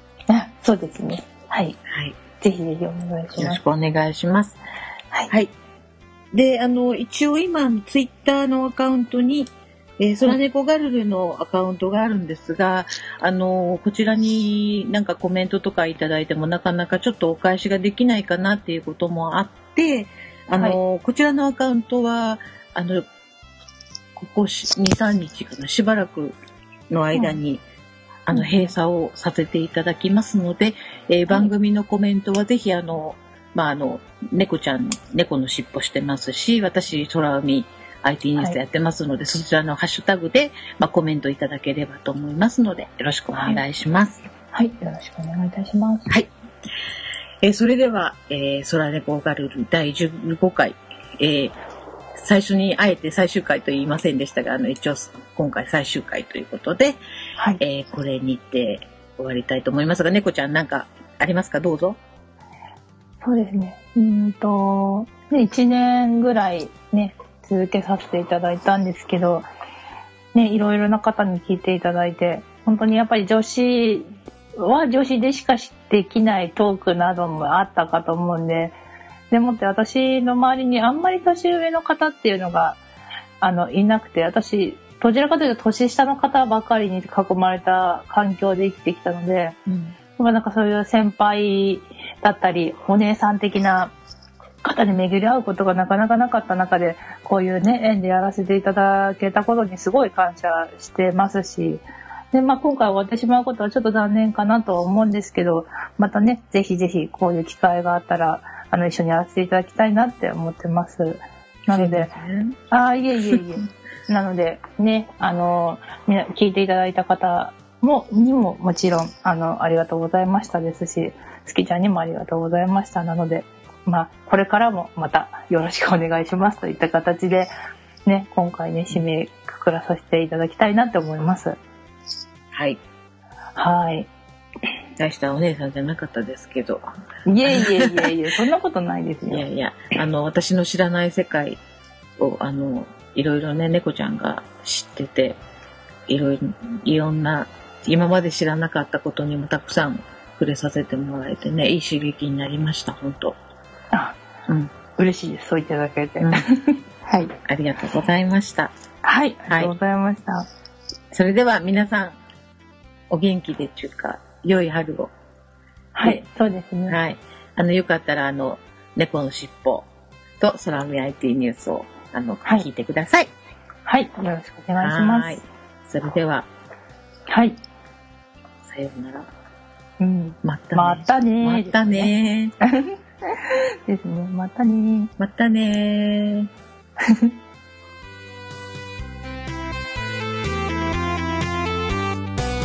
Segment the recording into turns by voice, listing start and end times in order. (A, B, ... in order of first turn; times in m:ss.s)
0:00.3-0:01.8 A
0:01.9-0:02.2 B
0:02.4-0:03.6 A
0:03.4-0:04.6 B
0:06.3-0:09.5 B
0:10.0-0:23.0 B
0:24.2-0:26.4 B
0:26.9-0:27.6 B
0:28.2-0:44.2 B
0:28.3-0:28.7 A
0:43.3-0:43.6 A
0:44.5-0:46.1 A
0:47.4-0:51.6 B
0:52.2-0:57.0 B
0:57.6-1:02.0 B
1:03.2-1:09.5 A
1:10.3-1:18.8 A
1:19.3-1:22.8 A
1:23.4-1:29.6 A
1:29.7-1:29.9 B
1:30.2-1:33.9 A
1:34.6-1:52.1 A
1:51.7-1:52.6 B
1:52.7-2:07.5 A
2:08.0-2:11.6 A
2:12.5-2:12.8 B
2:13.6-2:14.1 A
2:15.0-2:16.8 B
2:17.2-2:19.4 A
2:17.5-2:18.2 B
2:19.3-2:21.6 B
2:22.2-2:25.4 B
2:26.1-2:33.4 B
2:34.5-2:34.7 B
2:35.0-2:37.3 A
2:36.2-2:36.5 B
2:37.4-2:38.7 B
2:39.0-2:40.4 A
2:39.5-2:39.7 B
2:41.1-2:42.2 B
2:43.1-2:45.1 B
2:45.9-2:47.0 A
2:46.9-2:49.9 B
2:50.4-2:53.3 B
2:53.8-2:55.4 A
2:54.8-2:56.5 B
2:57.3-2:57.6 A
2:58.6-2:59.3 B
3:00.0-3:02.1 A
3:00.4-3:02.5 B
3:02.6-3:05.1 A
3:05.2-3:06.5 B